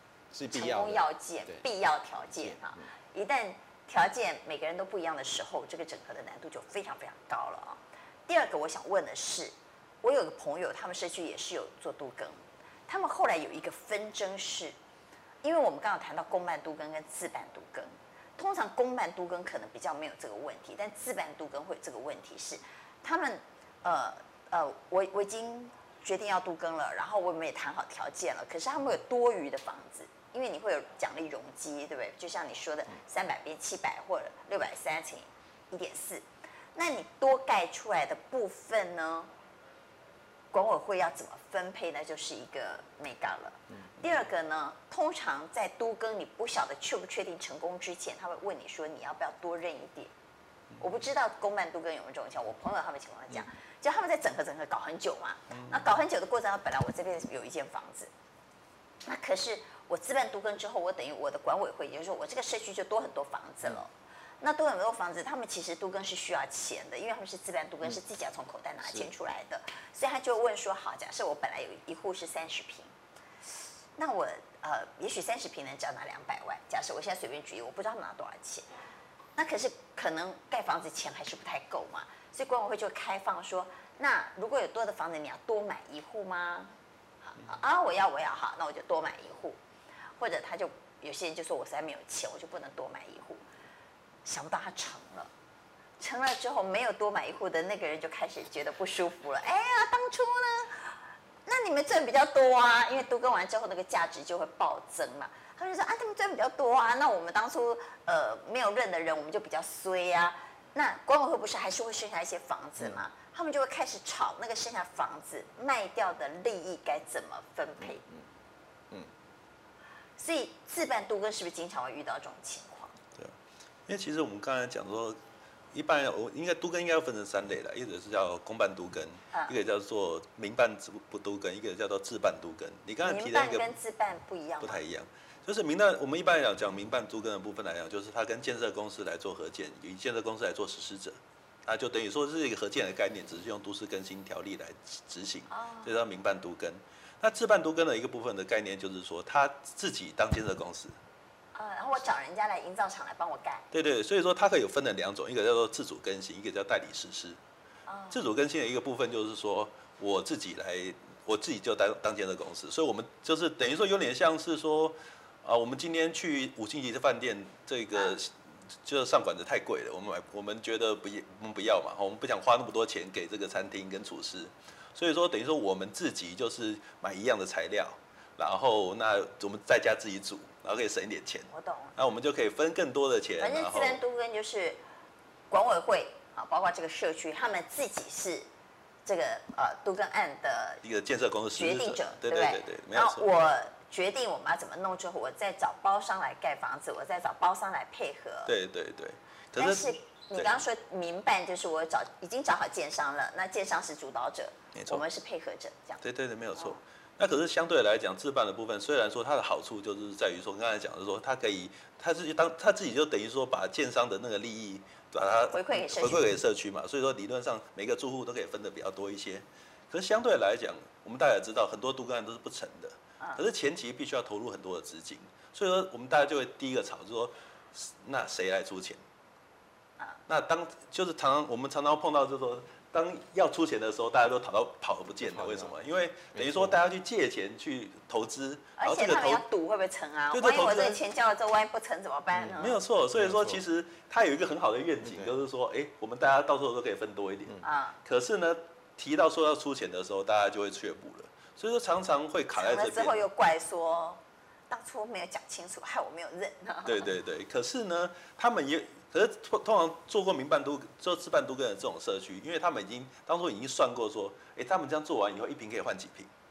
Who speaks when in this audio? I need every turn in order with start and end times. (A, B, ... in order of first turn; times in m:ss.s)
0:00.3-0:01.6 A
0:00.5-0:14.7 B
0:02.4-0:02.8 A
0:15.4-0:39.3 B
0:40.5-0:50.1 B
0:50.8-0:58.1 B
0:59.0-1:12.9 B
1:14.0-1:18.6 B
1:19.4-1:26.7 B
1:27.2-1:29.6 B
1:30.2-1:33.4 B
1:34.2-1:35.3 B
1:36.0-1:40.9 B
1:41.4-1:58.0 B
2:00.2-2:02.9 B
2:03.9-2:05.2 C
2:05.7-2:13.7 C
2:13.0-2:14.8 B
2:14.6-2:31.0 C
2:25.5-2:25.9 B
2:31.5-2:33.7 B
2:33.7-2:37.4 C
2:37.9-2:38.2 B
2:38.1-2:48.3 C
2:48.8-3:04.0 C
3:01.5-3:01.9 B
3:03.4-3:04.8 B
3:05.5-3:08.5 B
3:09.0-3:10.8 B
3:10.8-3:13.3 C
3:11.5-3:18.5 B
3:18.5-3:20.6 C
3:19.6-3:26.0 B
3:24.7-3:25.0 C
3:26.0-3:49.0 C
3:35.5-3:36.3 B
3:50.3-3:59.4 C
3:55.2-3:55.7 A
3:56.3-3:56.8 A
3:58.8-4:02.8 B
4:00.3-4:01.0 C
4:02.6-4:13.2 C
4:03.2-4:03.6 A
4:05.0-4:05.3 A
4:07.6-4:08.0 B
4:12.5-4:17.1 B
4:16.8-4:26.3 C